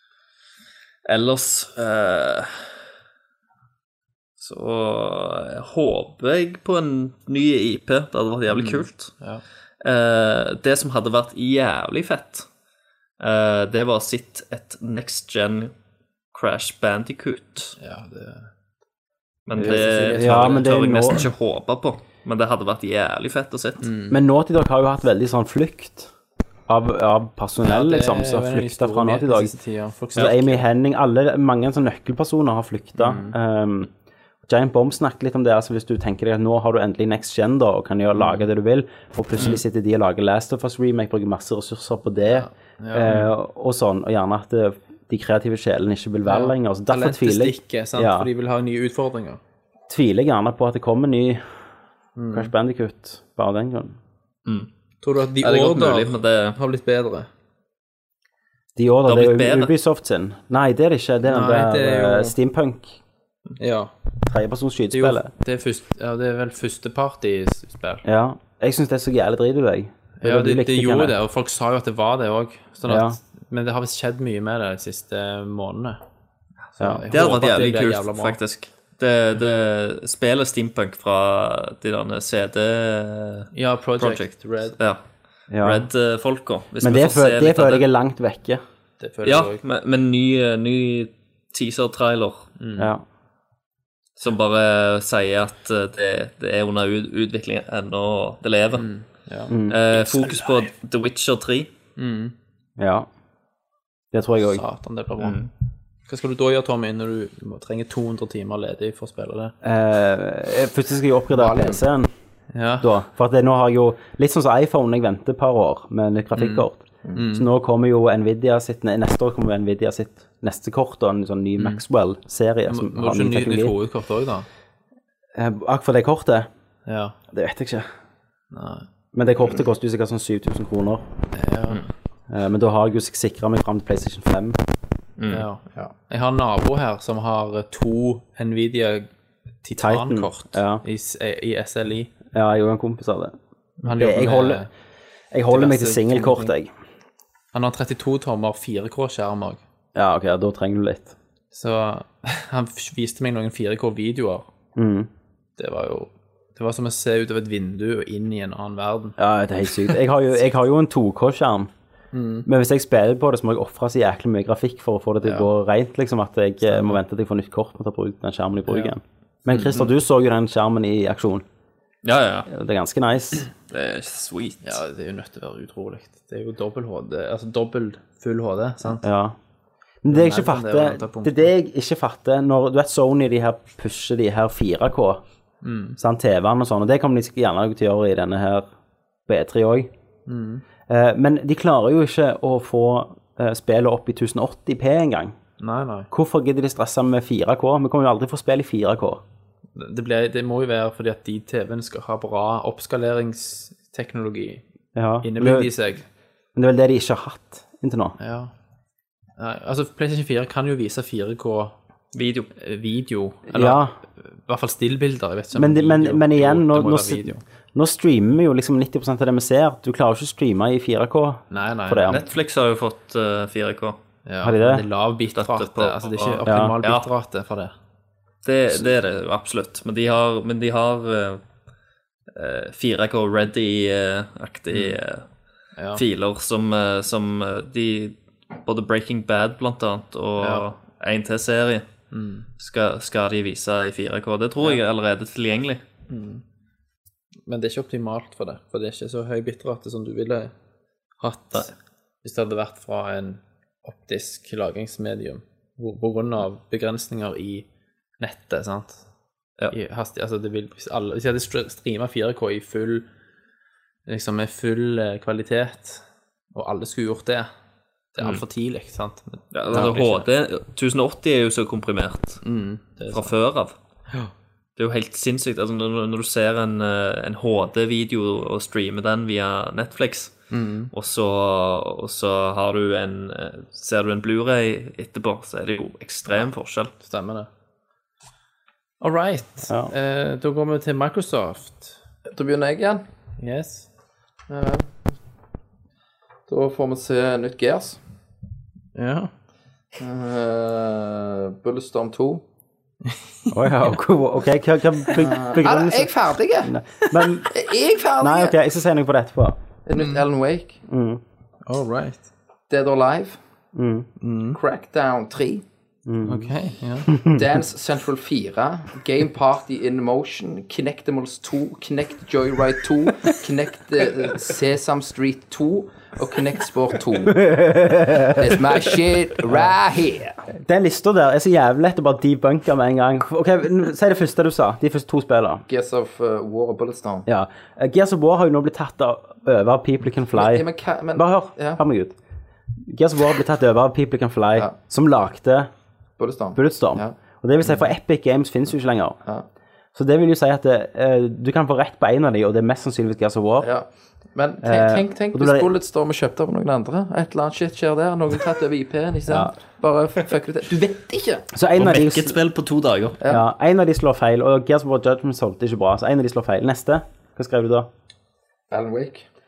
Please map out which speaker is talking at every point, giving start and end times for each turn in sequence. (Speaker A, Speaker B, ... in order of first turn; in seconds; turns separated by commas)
Speaker A: 1.1-2.7, Speaker A: 4.4-9.2, Speaker B: 8.5-9.4, Speaker A: 9.8-12.5, Speaker A: 13.2-15.7, Speaker A: 16.3-17.7, Speaker B: 17.8-18.5, Speaker A: 19.5-23.9, Speaker C: 19.6-21.3, Speaker B: 19.6-20.7, Speaker B: 23.8-24.1, Speaker C: 24.1-26.1, Speaker C: 26.7-29.5, Speaker B: 27.6-30.6, Speaker C: 30.1-33.9, Speaker B: 33.0-33.3, Speaker C: 34.5-48.3, Speaker B: 38.1-38.5, Speaker B: 42.3-43.3, Speaker B: 46.2-49.4, Speaker C: 49.9-51.4, Speaker B: 52.1-52.5, Speaker C: 52.3-54.0, Speaker B: 55.0-57.3, Speaker A: 55.4-56.6, Speaker C: 58.8-63.0, Speaker A: 59.0-59.7, Speaker B: 61.3-62.3, Speaker B: 63.6-63.9, Speaker C: 64.3-65.3, Speaker B: 64.9-68.0, Speaker C: 68.0-71.1, Speaker B: 70.2-76.0, Speaker C: 72.9-73.2, Speaker B: 76.8-78.4, Speaker C: 76.8-77.0, Speaker A: 77.1-85.0, Speaker B: 83.5-84.8, Speaker C: 85.5-85.9, Speaker A: 85.6-87.8, Speaker C: 86.8-88.6, Speaker B: 89.0-89.6, Speaker A: 89.2-92.5, Speaker B: 92.6-92.9, Speaker C: 92.8-93.0, Speaker A: 94.2-98.9, Speaker B: 98.8-99.5, Speaker C: 99.5-99.8, Speaker A: 99.7-101.7, Speaker B: 102.0-102.3, Speaker C: 102.8-103.1, Speaker C: 104.1-104.6, Speaker B: 104.4-105.4, Speaker A: 105.2-105.5, Speaker B: 106.1-109.5, Speaker C: 109.6-112.1, Speaker D: 111.3-111.8, Speaker B: 112.5-112.9, Speaker C: 112.8-123.7, Speaker B: 116.3-117.5, Speaker B: 122.7-124.5, Speaker C: 125.3-126.5, Speaker B: 126.8-127.1, Speaker C: 127.3-127.9, Speaker B: 128.5-128.8, Speaker C: 129.1-131.0, Speaker B: 131.3-131.9, Speaker C: 132.3-134.6, Speaker A: 135.2-135.4, Speaker B: 135.3-139.1, Speaker B: 139.6-142.1, Speaker C: 139.8-140.8, Speaker C: 142.3-143.3, Speaker B: 143.8-144.7, Speaker C: 143.9-144.7, Speaker C: 145.3-146.7, Speaker B: 145.5-146.5, Speaker B: 147.5-149.6, Speaker C: 149.9-151.1, Speaker B: 151.5-154.4, Speaker C: 154.8-155.1, Speaker B: 155.6-159.2, Speaker C: 159.2-161.7, Speaker B: 162.1-162.4, Speaker C: 162.4-171.4, Speaker B: 165.2-165.5, Speaker B: 166.7-167.0, Speaker B: 168.7-168.9, Speaker B: 169.5-169.9, Speaker A: 172.0-172.5, Speaker C: 172.5-173.5, Speaker A: 173.7-174.8, Speaker B: 174.6-179.0, Speaker C: 179.0-179.3, Speaker C: 180.0-185.2, Speaker B: 180.1-181.5, Speaker B: 185.6-186.0, Speaker C: 186.0-188.7, Speaker C: 189.3-189.9, Speaker B: 190.2-190.6, Speaker C: 190.9-195.3, Speaker B: 195.6-196.1, Speaker C: 196.1-199.2, Speaker B: 199.8-204.6, Speaker C: 204.9-205.7, Speaker B: 205.2-206.0, Speaker C: 206.5-208.1, Speaker B: 208.2-208.5, Speaker B: 209.4-211.7, Speaker A: 212.1-212.5, Speaker B: 212.6-217.4, Speaker C: 213.5-213.9, Speaker C: 215.5-222.2, Speaker B: 221.5-222.2, Speaker A: 222.1-224.0, Speaker B: 224.2-227.7, Speaker C: 224.4-224.8, Speaker A: 225.3-227.1, Speaker C: 226.4-226.8, Speaker A: 228.4-231.4, Speaker A: 232.3-235.2, Speaker B: 234.7-235.0, Speaker B: 235.8-236.0, Speaker A: 235.9-241.9, Speaker B: 240.4-240.7, Speaker B: 242.1-242.5, Speaker A: 242.6-245.8, Speaker B: 246.1-246.4, Speaker B: 247.5-250.5, Speaker B: 251.2-257.7, Speaker B: 258.2-259.0, Speaker B: 259.7-263.1, Speaker B: 264.1-266.0, Speaker B: 266.5-267.5, Speaker B: 268.1-270.3, Speaker A: 269.5-272.4, Speaker B: 272.4-273.3, Speaker A: 273.1-273.7, Speaker A: 274.8-286.9, Speaker B: 280.5-280.9, Speaker B: 287.0-287.5, Speaker B: 289.0-292.0, Speaker D: 292.2-293.0, Speaker B: 293.4-293.9, Speaker D: 294.5-295.1, Speaker D: 296.5-298.0, Speaker B: 298.9-299.3, Speaker D: 300.0-302.4, Speaker B: 303.1-303.5, Speaker C: 303.5-307.5, Speaker D: 305.1-306.7, Speaker D: 307.5-308.6, Speaker C: 308.2-309.6, Speaker D: 309.8-310.8, Speaker B: 309.9-310.2, Speaker C: 310.9-311.2, Speaker B: 311.7-312.3, Speaker D: 312.7-313.4, Speaker C: 313.7-314.1, Speaker B: 314.2-314.6, Speaker D: 314.5-315.6, Speaker C: 316.1-316.5, Speaker B: 316.2-317.1, Speaker C: 317.1-317.4, Speaker D: 317.2-327.5, Speaker C: 327.3-328.4, Speaker D: 328.3-330.4, Speaker C: 330.5-335.6, Speaker D: 335.7-337.3, Speaker C: 337.2-342.1, Speaker D: 340.3-341.8, Speaker C: 342.8-345.7, Speaker D: 346.2-347.1, Speaker C: 346.5-349.2, Speaker C: 349.9-353.7, Speaker D: 353.6-361.5, Speaker C: 354.6-355.7, Speaker C: 359.3-359.5, Speaker C: 361.5-362.4, Speaker A: 361.8-363.2, Speaker C: 363.3-367.9, Speaker D: 368.7-369.2